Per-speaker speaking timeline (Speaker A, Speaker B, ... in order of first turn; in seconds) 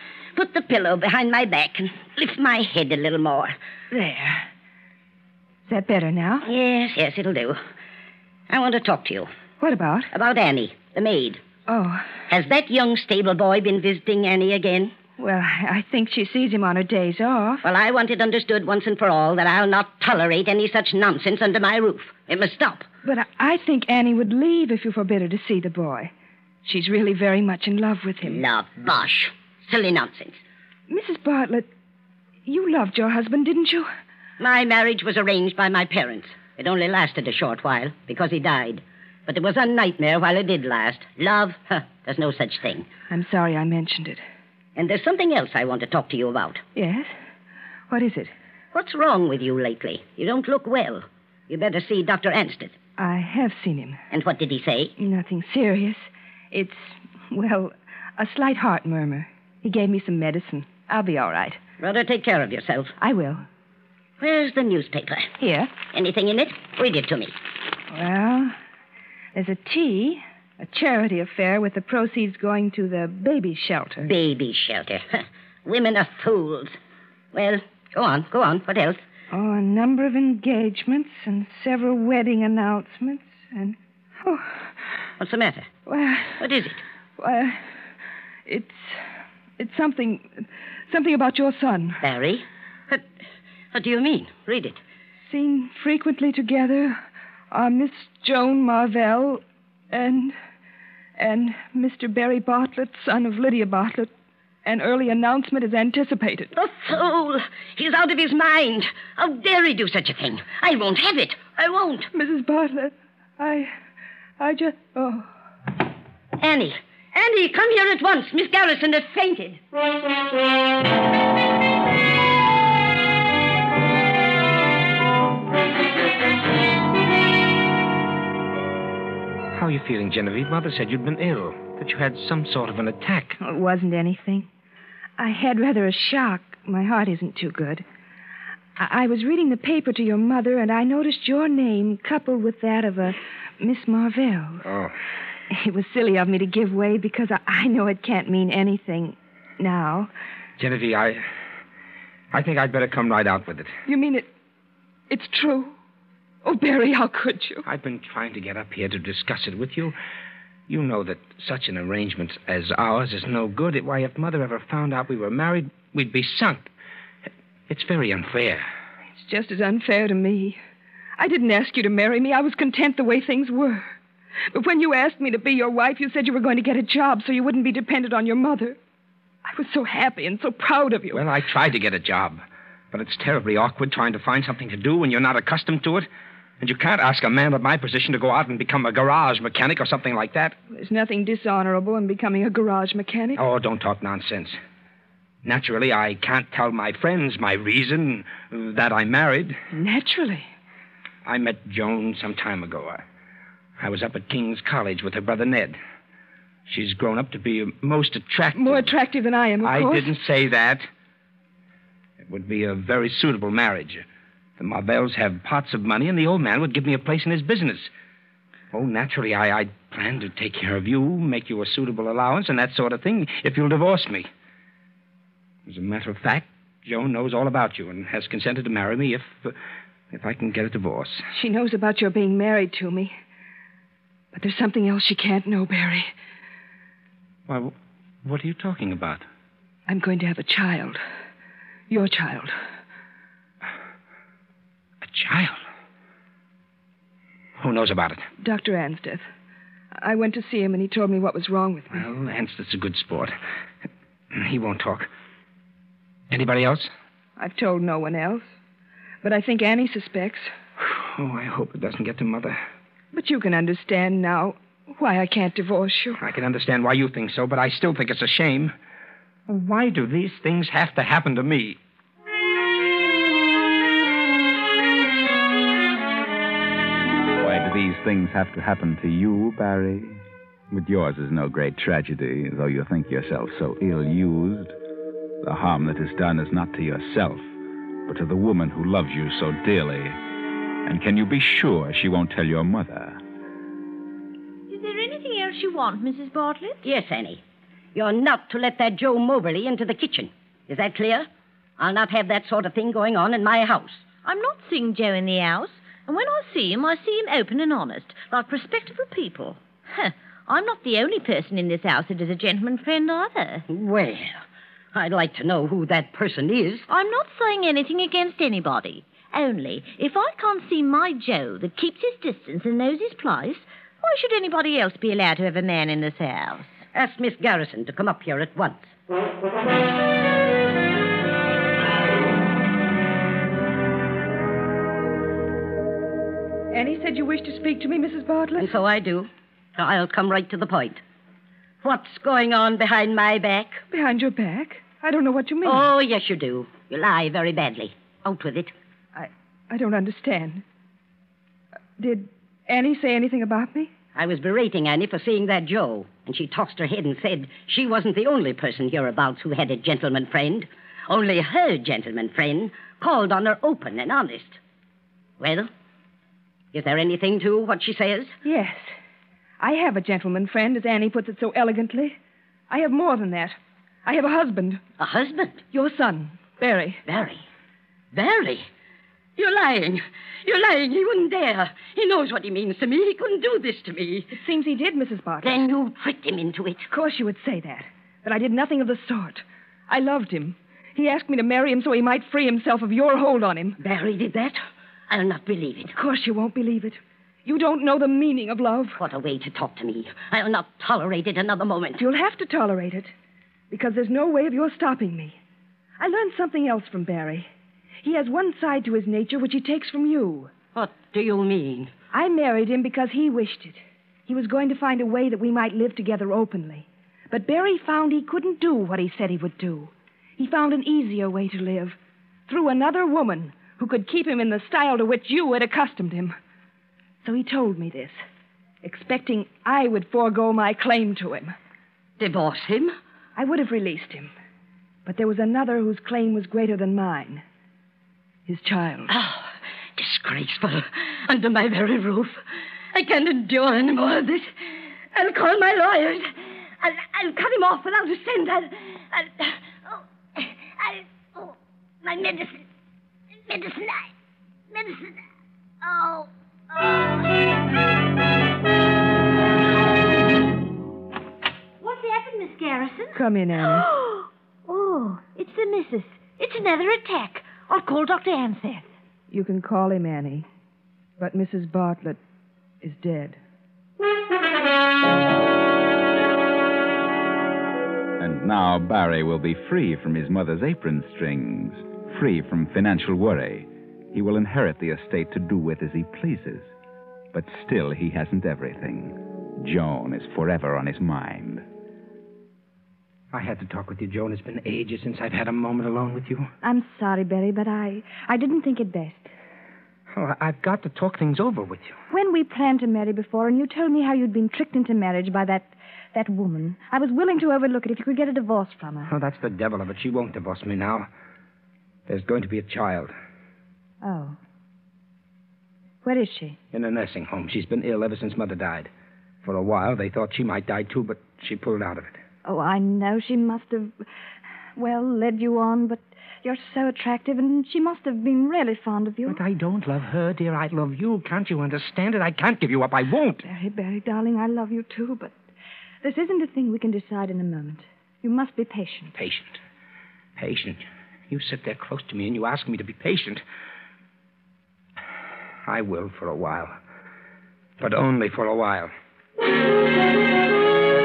Speaker A: 0.3-3.5, 6.4-7.6, 8.5-9.3, 10.1-11.4, 12.3-14.9, 17.6-22.9, 28.2-30.4, 34.4-42.9, 44.8-46.6, 48.7-52.8, 54.1-54.9, 61.8-62.9, 64.2-67.3, 74.0-76.8, 77.3-79.0, 85.2-85.7, 86.4-86.8, 92.0-93.0, 93.7-94.8, 106.5-112.1, 116.4-119.6, 296.8-297.4, 297.9-304.0, 313.7-314.4, 314.9-316.8, 326.9-328.9, 338.6-341.0, 341.8-343.8, 345.6-348.7, 354.1-364.6, 365.4-365.7, 366.7-368.3, 375.0-375.6, 377.1-377.4, 378.1-378.7, 379.4-384.3, 385.4-386.9, 393.8-395.9, 399.0-402.0, 410.7-411.9, 432.2-432.9, 439.1-442.4, 442.9-444.5, 445.1-452.6, 453.5-454.1, 454.7-455.2, 455.8-457.4
Speaker B: 3.9-4.5, 5.7-6.5, 9.6-10.1, 11.7-12.1, 15.2-17.6, 23.0-26.1, 26.6-28.4, 30.9-31.7, 32.5-33.9, 43.1-44.2, 46.7-47.1, 47.9-48.3, 53.0-54.0, 55.0-61.6, 63.0-63.4, 65.4-65.7, 67.9-68.5, 69.3-74.1, 79.3-84.6, 85.8-86.5, 87.2-87.6, 88.5-89.0, 89.6-92.0, 95.2-97.0, 97.5-100.3, 101.2-104.1, 104.6-106.5, 112.1-113.7, 114.4-115.3, 133.4-134.5, 135.2-137.8, 138.8-144.7, 145.5-150.1, 153.8-154.3, 155.1-155.7, 156.4-157.6, 169.1-170.6, 171.2-173.9, 174.5-178.8, 179.4-181.2, 190.7-193.4, 199.7-200.5, 208.5-210.1, 231.3-233.1, 234.3-236.1, 239.9-241.0, 241.9-242.5, 248.4-249.2, 250.0-252.0, 257.4-258.4, 259.2-260.5, 263.1-266.2, 336.7-338.7, 343.9-345.9, 349.1-350.6, 352.0-353.9, 368.4-368.9, 369.6-372.2, 372.7-374.8, 375.7-377.0, 384.3-385.6, 386.9-393.8, 395.9-399.0, 402.0-403.1, 403.7-405.4, 406.0-407.5, 408.0-410.5, 412.1-422.0, 422.5-426.4, 427.2-428.2, 428.8-431.5, 433.4-434.3, 435.1-437.4, 438.5-439.1, 463.1-463.9, 469.3-470.5, 471.2-472.2, 472.8-473.4
Speaker C: 129.5-133.4, 144.7-144.9, 150.6-151.2, 152.3-153.7, 157.6-159.9, 160.7-166.7, 167.7-168.7, 181.1-186.1, 186.6-190.6, 193.3-194.6, 195.4-199.6, 201.2-203.0, 203.8-205.8, 206.7-208.9, 209.6-210.9, 212.2-214.0, 214.6-217.9, 218.7-224.3, 225.7-229.6, 230.1-231.2, 237.5-239.2, 245.0-245.6, 247.6-248.2, 251.9-253.3, 254.3-255.1, 256.3-256.9, 260.8-262.6, 266.2-268.7, 269.5-271.8, 493.3-496.5, 500.1-502.0, 509.1-511.1, 512.1-513.1, 516.7-518.9, 519.4-522.2, 529.2-533.4, 539.1-539.6, 540.4-543.4, 545.6-546.8, 547.8-548.9
Speaker D: 277.4-280.2, 280.7-284.7, 285.4-287.5, 288.1-290.2, 290.8-293.2, 478.2-486.7, 487.3-491.6
Speaker E: 294.7-296.8, 304.2-313.6, 316.9-326.7, 461.8-468.9
Speaker F: 496.6-499.3, 502.1-509.1, 514.0-514.4, 516.0-516.6, 522.4-524.0, 524.8-529.4, 533.4-535.3, 536.0-539.1